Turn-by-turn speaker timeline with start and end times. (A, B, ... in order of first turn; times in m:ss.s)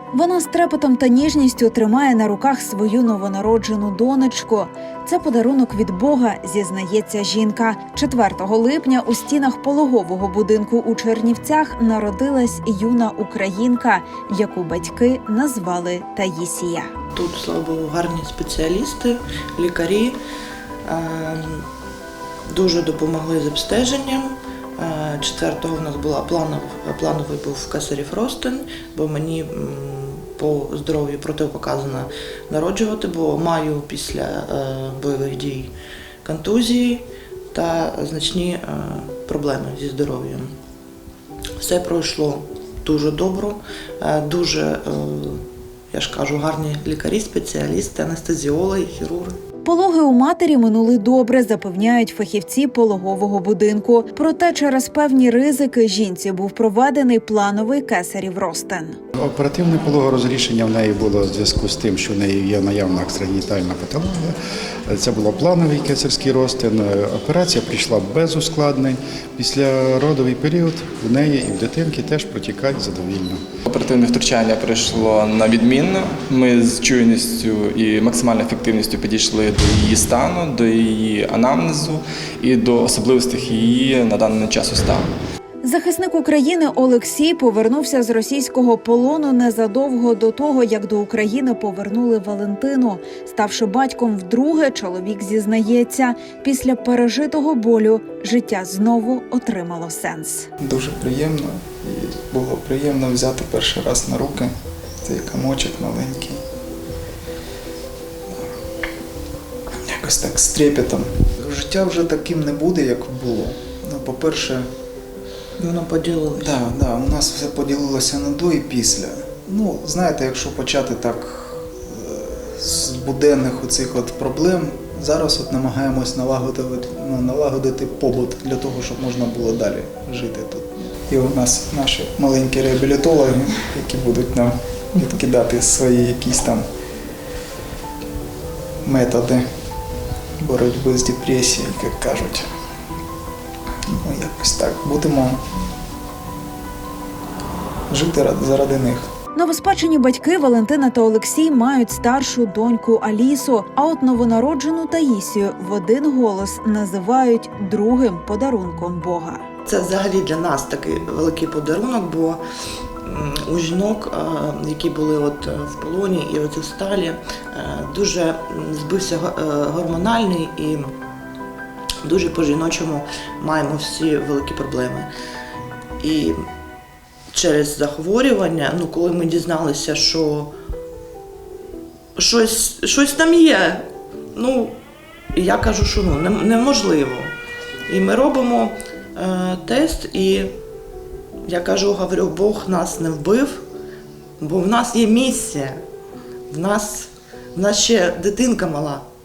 0:00.1-0:16.9 A
0:17.1-0:20.2 B
0:20.8-0:21.7 B
0:22.5-0:35.7 B
0:36.2-0:40.5 B
0:41.6-0:45.4 B
0:45.9-0:49.4 B
0:49.6-0:59.0 A
0:59.2-1:04.3 C
1:04.8-1:13.4 C
1:13.6-1:25.1 D
1:25.6-1:40.5 A
1:40.6-1:44.5 E
1:45.0-1:46.4 E
1:49.8-1:54.6 E
1:55.6-1:56.5 B
1:56.4-2:16.6 E
2:18.8-2:19.4 E
2:20.4-2:22.5 E
2:23.9-2:25.4 E
2:27.9-2:29.1 E
2:29.3-2:39.4 A
2:39.6-2:42.4 B
2:43.0-2:50.9 B
2:52.0-2:55.1 B
2:56.0-2:56.4 B
2:57.3-3:00.5 B
3:02.2-3:04.8 B
3:05.3-3:07.3 B
3:07.9-3:10.5 B
3:11.4-3:13.6 B
3:14.4-3:15.8 B
3:16.5-3:19.0 B